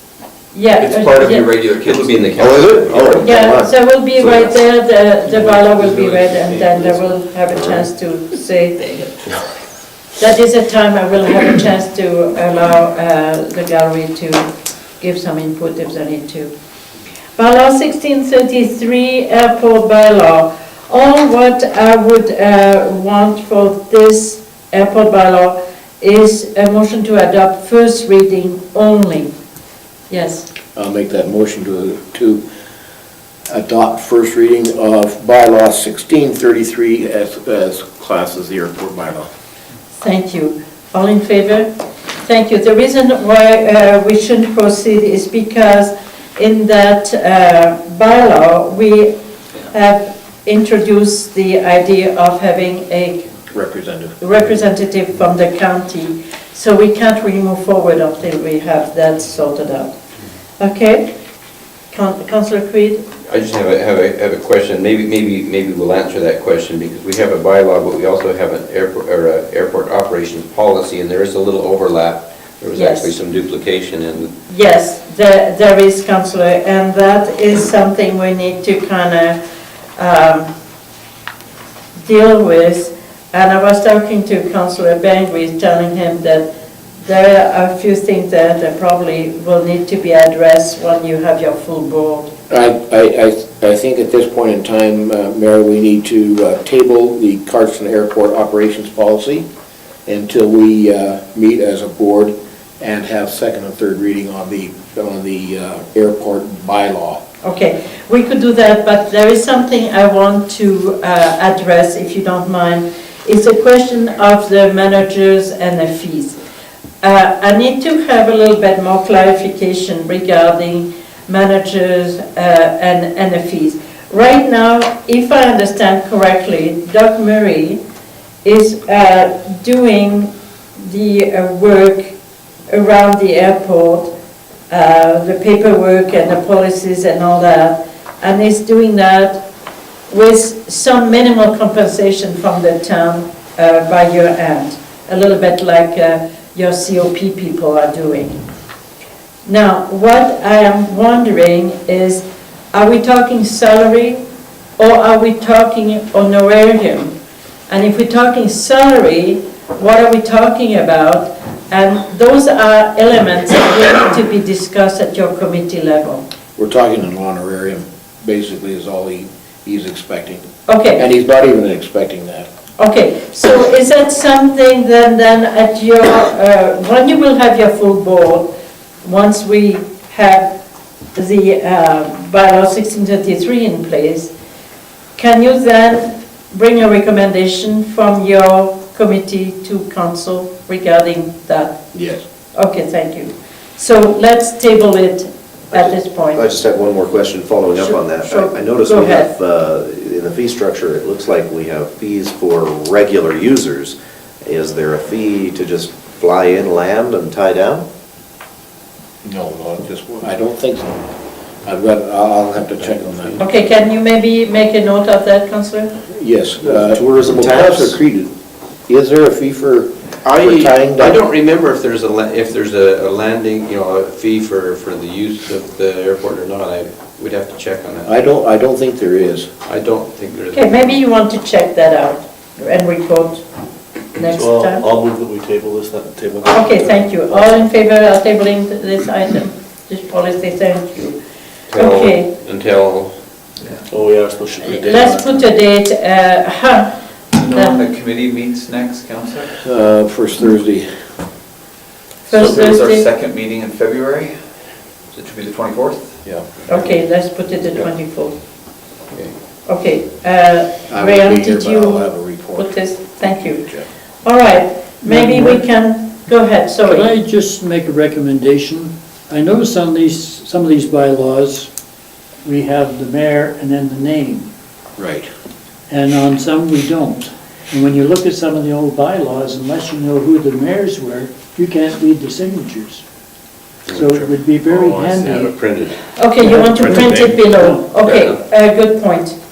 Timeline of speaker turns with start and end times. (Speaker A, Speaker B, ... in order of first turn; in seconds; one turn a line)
Speaker A: 0.5-1.5
Speaker B: 0.8-2.7
Speaker C: 1.0-3.4
Speaker D: 2.4-3.7
Speaker A: 3.1-8.8
Speaker B: 5.8-6.2
Speaker A: 10.2-14.4
Speaker A: 15.0-16.5
Speaker A: 17.4-29.3
Speaker A: 30.1-30.5
Speaker E: 30.7-32.4
Speaker E: 33.5-39.3
Speaker A: 40.0-41.7
Speaker A: 42.2-49.1
Speaker A: 49.7-53.3
Speaker E: 53.5-54.1
Speaker A: 54.2-59.9
Speaker A: 60.6-61.1
Speaker A: 61.9-63.0
Speaker C: 63.2-74.3
Speaker A: 72.7-73.1
Speaker A: 74.5-79.4
Speaker A: 80.0-80.5
Speaker A: 82.0-86.5
Speaker A: 87.0-92.3
Speaker E: 92.5-99.5
Speaker E: 100.0-107.2
Speaker A: 107.4-116.4
Speaker A: 117.0-127.8
Speaker A: 128.4-132.1
Speaker A: 132.7-134.1
Speaker A: 134.7-139.4
Speaker A: 140.1-148.4
Speaker A: 149.4-154.2
Speaker A: 154.8-157.1
Speaker A: 157.7-166.2
Speaker E: 166.6-170.4
Speaker A: 170.7-171.0
Speaker E: 171.0-172.5
Speaker A: 172.8-178.5
Speaker A: 179.0-180.5
Speaker A: 181.1-184.3
Speaker A: 185.2-191.8
Speaker E: 191.9-192.2
Speaker A: 192.5-196.5
Speaker D: 195.7-207.8
Speaker A: 197.8-199.3
Speaker E: 209.2-211.0
Speaker E: 211.6-213.4
Speaker C: 213.1-213.4
Speaker A: 213.4-215.9
Speaker E: 216.1-218.3
Speaker D: 216.6-218.0
Speaker E: 218.9-221.2
Speaker C: 220.2-228.1
Speaker E: 228.1-229.5
Speaker C: 229.6-230.9
Speaker A: 230.5-233.4
Speaker A: 234.1-234.8
Speaker F: 234.2-237.6
Speaker A: 236.4-241.2
Speaker C: 241.7-243.1
Speaker A: 241.7-242.3
Speaker F: 243.9-245.4
Speaker A: 244.7-246.9
Speaker B: 247.3-249.5
Speaker A: 247.5-247.8
Speaker E: 249.6-250.9
Speaker A: 252.3-253.0
Speaker B: 252.3-254.3
Speaker B: 255.1-256.2
Speaker A: 256.7-258.4
Speaker A: 259.6-263.6
Speaker E: 260.9-263.9
Speaker A: 264.2-267.1
Speaker G: 265.0-265.6
Speaker G: 266.8-271.7
Speaker G: 272.4-274.5
Speaker E: 275.0-275.3
Speaker G: 275.9-283.0
Speaker G: 283.9-285.5
Speaker C: 283.9-286.0
Speaker A: 286.1-289.4
Speaker G: 286.4-287.8
Speaker C: 288.0-288.4